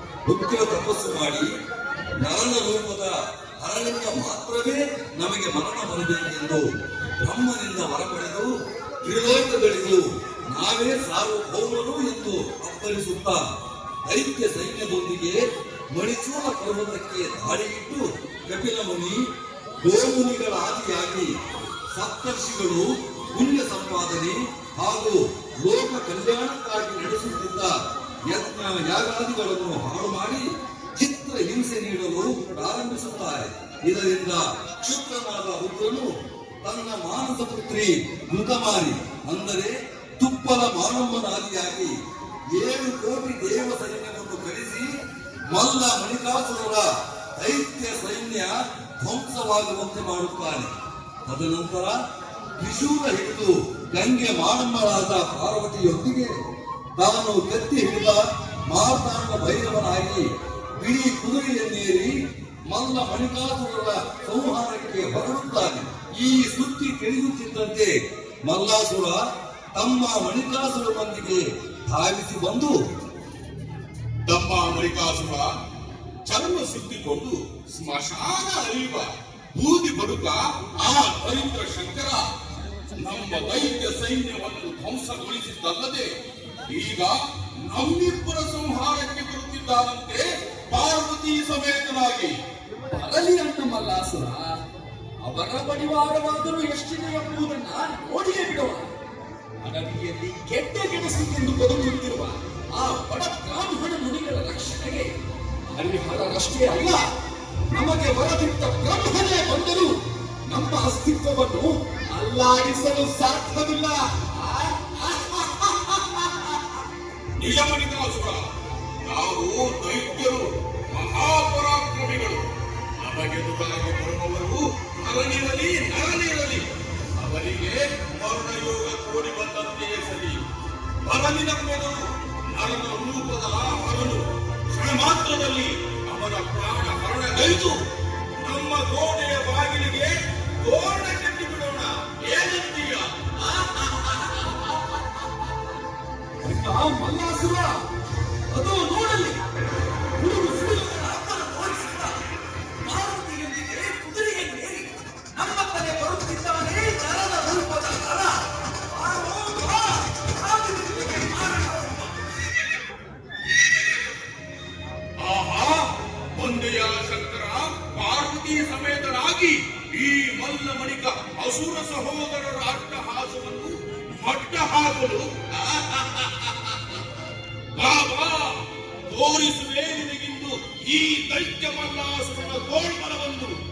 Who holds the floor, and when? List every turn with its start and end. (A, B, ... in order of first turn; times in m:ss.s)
0:00.3-0:01.5 A
0:02.2-0:03.1 A
0:03.6-0:06.6 A
0:07.2-0:08.5 A
0:09.0-0:13.4 A
0:14.1-0:15.4 A
0:15.9-0:19.2 A
0:19.8-0:21.3 A
0:21.9-0:27.7 A
0:28.3-0:30.4 A
0:31.0-0:36.1 A
0:36.6-0:41.9 A
0:42.6-0:44.8 A
0:45.5-0:46.8 A
0:47.4-0:50.7 A
0:51.3-0:51.9 A
0:52.6-0:56.3 A
0:57.0-1:00.2 A
1:00.8-1:02.1 A
1:02.7-1:07.9 A
1:08.5-1:09.2 A
1:09.8-1:12.7 A
1:14.3-1:15.5 B
1:16.3-1:22.2 B
1:23.0-1:26.1 B
1:26.7-1:27.2 B
1:27.7-1:32.3 B
1:32.9-1:34.5 C
1:35.2-1:38.9 C
1:39.6-1:45.1 C
1:45.8-1:47.0 C
1:47.7-1:49.9 C
1:50.5-1:56.6 C
1:57.4-1:58.4 B
1:59.0-2:02.4 B
2:03.0-2:06.6 B
2:07.2-2:10.4 B
2:11.0-2:17.7 B
2:17.4-2:17.8 C
2:18.4-2:24.1 B
2:26.4-2:27.8 C
2:28.5-2:29.4 C
2:30.2-2:32.2 C
2:32.8-2:38.3 C
2:38.9-2:42.2 C
2:45.2-2:57.0 B
2:57.8-2:58.6 B
2:59.1-3:03.6 B